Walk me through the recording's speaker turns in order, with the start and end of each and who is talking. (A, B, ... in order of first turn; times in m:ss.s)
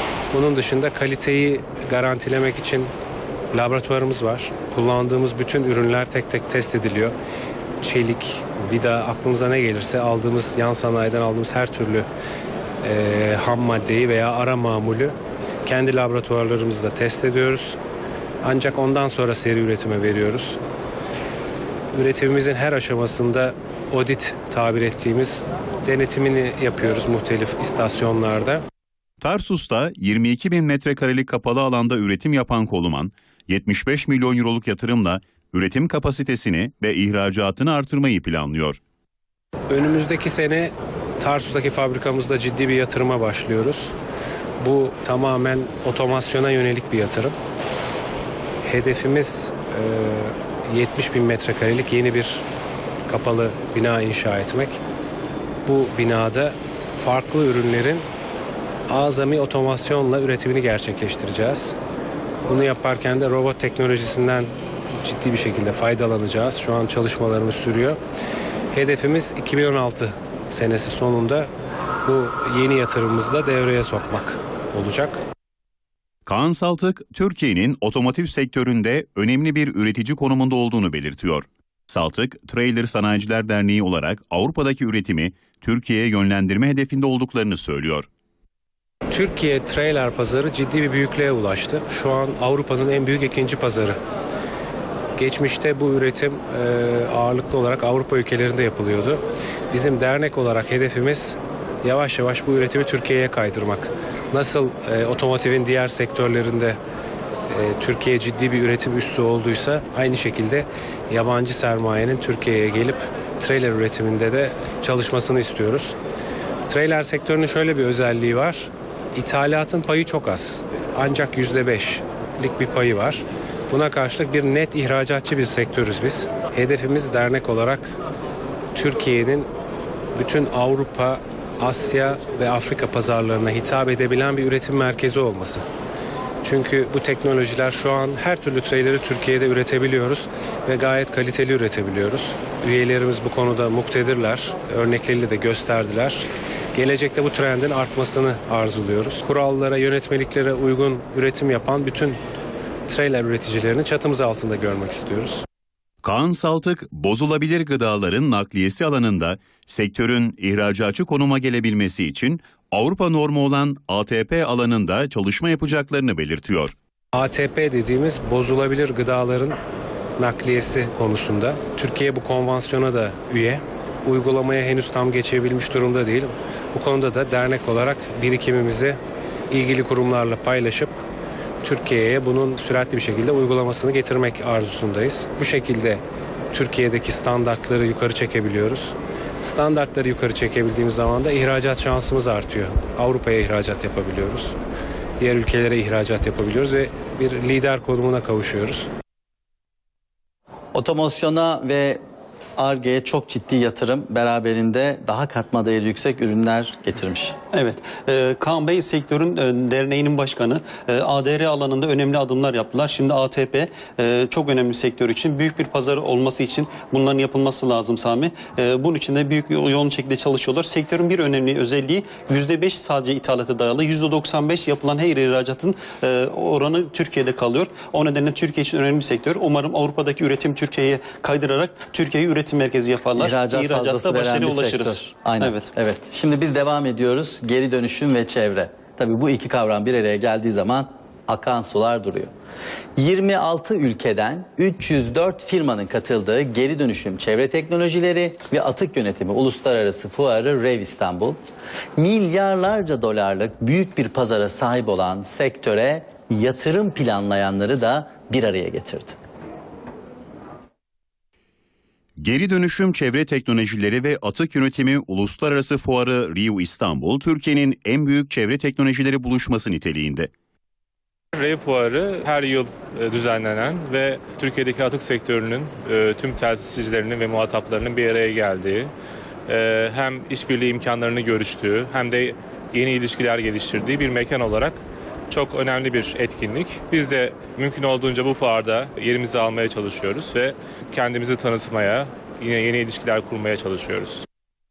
0:00.3-0:02.9 A
0:03.5-0:07.1 A
0:07.8-0:12.1 A
0:12.8-0:17.8 A
0:18.4-0:20.6 A
0:21.9-0:28.6 A
0:29.2-0:38.8 B
0:39.7-0:43.9 A
0:44.6-0:47.3 A
0:48.6-0:52.4 A
0:53.0-0:54.8 A
0:55.6-0:58.0 A
0:58.9-1:01.8 A
1:02.5-1:08.0 A
1:08.7-1:11.5 A
1:12.0-1:15.2 A
1:16.2-1:28.1 B
1:29.1-1:34.0 A
1:35.2-1:46.8 A
1:47.5-1:56.0 A
1:56.7-2:07.9 A
2:08.7-2:09.5 A
2:10.2-2:15.6 A
2:16.4-2:32.2 A
2:32.9-2:35.4 A
2:36.0-2:46.7 B
2:47.1-2:49.6 A
2:50.2-2:59.0 A
2:59.5-3:01.0 A
3:01.6-3:14.6 A
3:15.2-3:18.9 A
3:20.7-3:22.0 C
3:22.6-3:27.4 C
3:27.5-3:55.7 D
3:53.2-4:02.3 C
4:03.0-4:11.4 C
4:12.0-4:19.2 C
4:22.2-4:30.3 B
4:31.3-4:38.9 E
4:39.5-4:44.8 E
4:45.3-4:54.2 E